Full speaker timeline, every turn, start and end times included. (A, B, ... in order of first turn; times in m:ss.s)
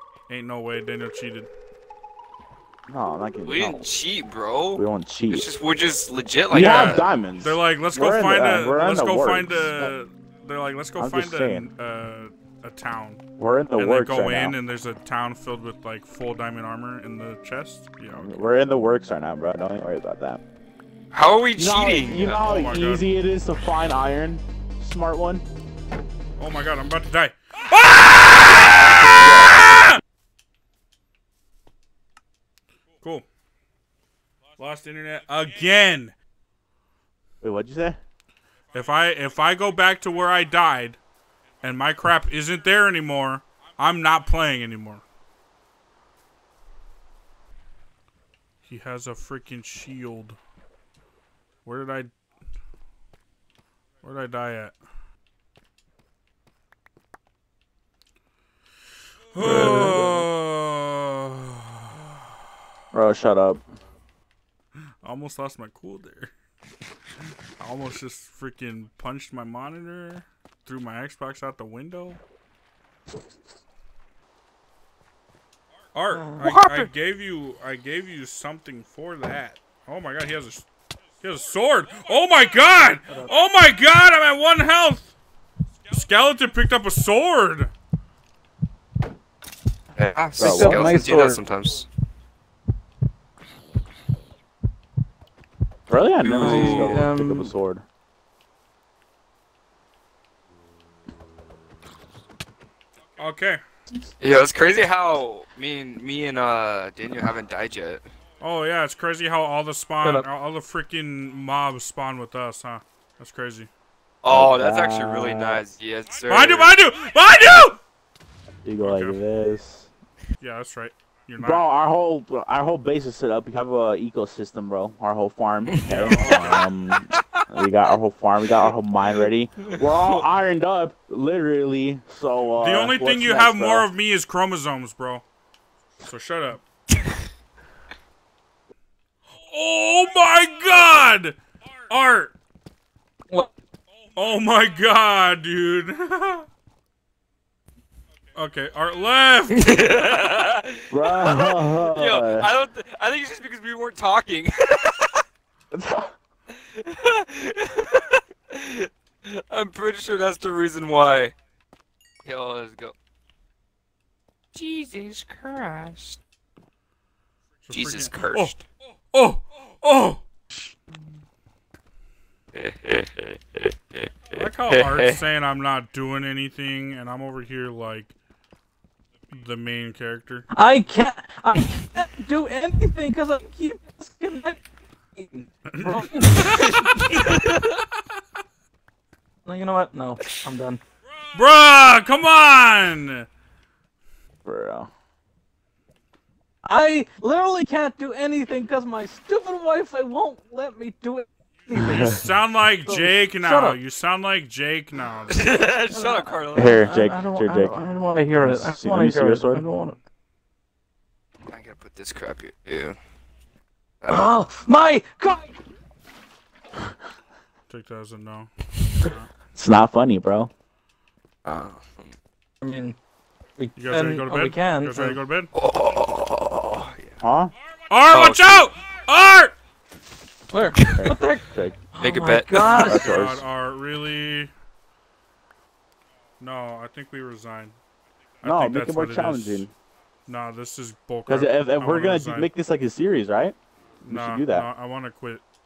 0:00.3-0:01.5 A
0:02.9-0:03.9 B
0:03.4-0:07.1 C
0:04.8-0:05.5 B
0:06.5-0:09.9 B
0:06.6-0:13.2 A
0:11.0-0:11.7 B
0:13.4-0:14.6 B
0:13.8-0:18.4 A
0:18.1-0:20.4 B
0:21.1-0:22.4 C
0:21.6-0:25.4 B
0:22.1-0:23.1 A
0:26.4-0:30.0 A
0:28.7-0:29.9 B
0:33.0-0:33.3 A
0:34.6-0:36.2 A
0:37.4-0:38.0 B
0:38.7-0:41.0 A
0:41.6-0:45.0 A
0:48.6-0:50.4 A
0:51.6-0:52.1 A
0:54.0-0:54.8 A
0:59.3-1:01.9 A
0:59.4-1:00.2 B
1:02.9-1:03.6 B
1:05.0-1:06.3 A
1:07.6-1:12.2 A
1:15.9-1:20.7 A
1:16.2-1:16.5 D
1:16.4-1:16.9 C
1:21.2-1:25.1 A
1:25.9-1:27.7 A
1:30.0-1:31.9 C
1:30.4-1:31.1 B
1:30.4-1:31.4 D
1:35.9-1:37.8 B
1:36.2-1:37.0 C
1:36.3-1:37.5 D
1:43.2-1:43.6 A
1:44.2-1:48.0 C
1:48.4-1:53.7 A
1:54.2-1:56.7 C
1:54.3-1:55.6 B
1:56.3-1:57.8 A
1:58.6-1:59.9 B
1:58.8-1:59.2 A
2:00.4-2:01.7 A
2:01.4-2:13.9 B
2:05.8-2:06.7 A
2:06.2-2:07.4 C
2:09.7-2:10.2 C
2:12.6-2:15.2 A
2:16.0-2:16.6 A
2:19.4-2:21.4 A
2:21.9-2:22.4 A
2:24.2-2:26.5 A
2:28.4-2:29.8 A
2:29.5-2:35.2 C
2:30.9-2:32.5 B
2:35.7-2:36.1 B
2:36.5-2:41.3 C
2:42.2-2:43.0 C
2:44.6-2:46.2 C
2:47.6-2:48.6 A
2:47.7-2:48.6 C
2:49.1-2:50.2 A
2:52.5-2:55.2 C
2:54.3-2:58.2 A
2:59.3-3:00.5 A
3:00.5-3:04.6 D
3:05.2-3:07.2 D
3:05.7-3:06.4 A
3:06.5-3:07.7 C
3:09.5-3:10.8 D
3:11.3-3:13.3 A
3:14.4-3:14.9 B
3:16.6-3:22.2 D
3:21.7-3:25.6 A
3:22.9-3:23.8 D
3:25.3-3:26.9 C
3:25.9-3:30.0 D
3:26.5-3:27.8 B
3:28.4-3:29.7 B
3:31.5-3:33.0 C
3:34.0-3:34.4 C
3:34.1-3:35.6 D
3:37.7-3:39.3 A
3:39.6-3:40.5 B
3:41.4-3:42.1 C
3:42.6-3:43.0 D
3:43.6-3:45.2 D
3:43.8-3:45.5 A
3:45.5-3:47.1 C
3:47.2-3:47.5 B
3:47.9-3:49.5 A
3:48.1-3:48.7 C
3:50.5-3:53.1 D
3:51.0-3:51.8 B
3:52.0-3:53.0 C
3:52.6-3:54.5 A
3:52.8-3:53.5 B
3:56.4-3:57.8 A
3:58.4-3:59.7 A
3:58.4-3:59.7 B
4:00.3-4:02.5 A
4:01.3-4:03.6 B
4:04.0-4:05.4 A
4:04.1-4:04.7 B